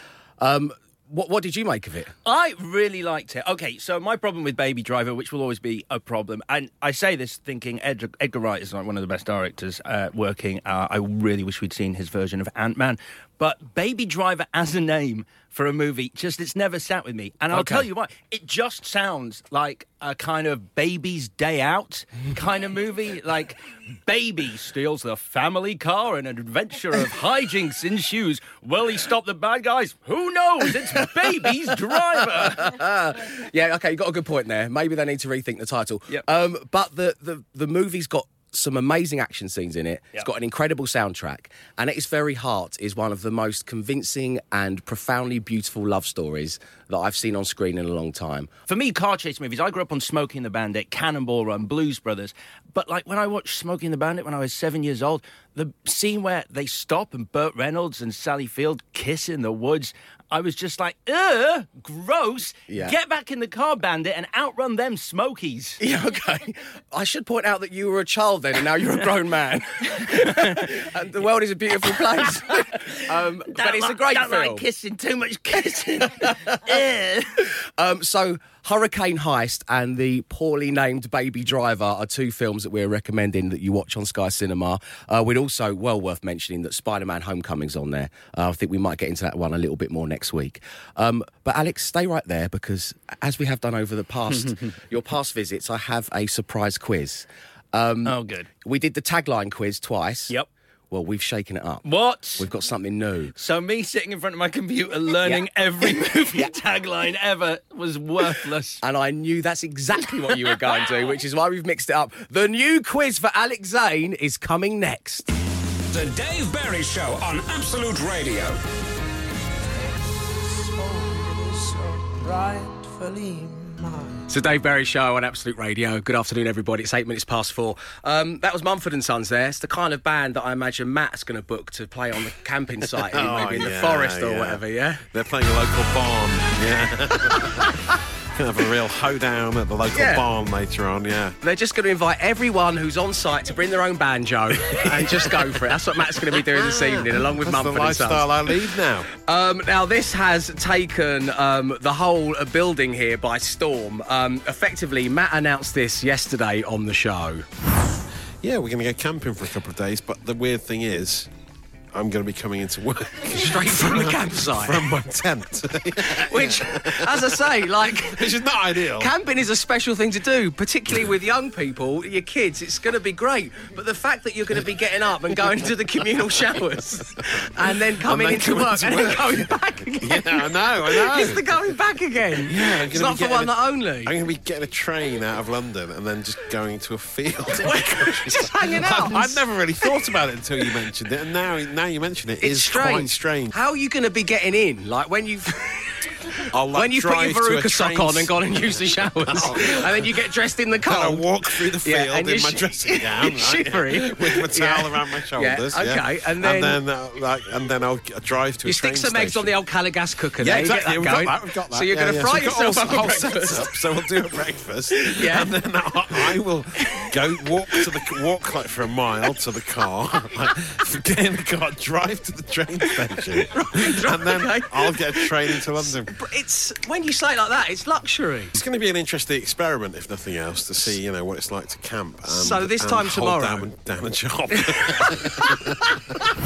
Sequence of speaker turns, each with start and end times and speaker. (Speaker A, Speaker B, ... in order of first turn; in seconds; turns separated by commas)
Speaker A: 0.4-2.1, Speaker B: 2.2-32.8, Speaker A: 17.5-17.8, Speaker A: 32.4-48.5, Speaker B: 48.7-65.8, Speaker A: 62.7-62.9, Speaker A: 65.8-74.6, Speaker B: 70.1-70.7, Speaker B: 72.5-77.4, Speaker A: 76.2-76.6, Speaker A: 77.4-100.3, Speaker B: 98.0-98.5, Speaker A: 100.9-101.8, Speaker B: 101.8-102.5, Speaker A: 102.4-103.3, Speaker B: 103.3-108.8, Speaker A: 108.8-115.3, Speaker C: 115.9-118.6, Speaker B: 120.7-124.0, Speaker A: 124.3-135.0, Speaker D: 132.9-137.8, Speaker A: 137.2-137.8, Speaker D: 138.3-141.4, Speaker A: 139.9-140.2, Speaker A: 141.4-148.5, Speaker D: 144.8-145.5, Speaker D: 146.4-149.1, Speaker A: 149.1-157.4, Speaker D: 158.4-161.3, Speaker D: 161.9-169.1, Speaker A: 163.3-164.9, Speaker A: 166.1-168.3, Speaker A: 169.0-184.2, Speaker D: 178.0-181.5, Speaker D: 182.4-193.5, Speaker A: 187.6-189.4, Speaker A: 192.4-195.9, Speaker D: 196.5-200.1, Speaker A: 196.7-206.8, Speaker D: 200.8-209.6, Speaker A: 208.6-213.8, Speaker D: 210.4-226.2, Speaker A: 214.9-215.6, Speaker A: 222.9-228.6, Speaker D: 228.5-235.9, Speaker A: 232.2-233.7, Speaker A: 234.5-235.9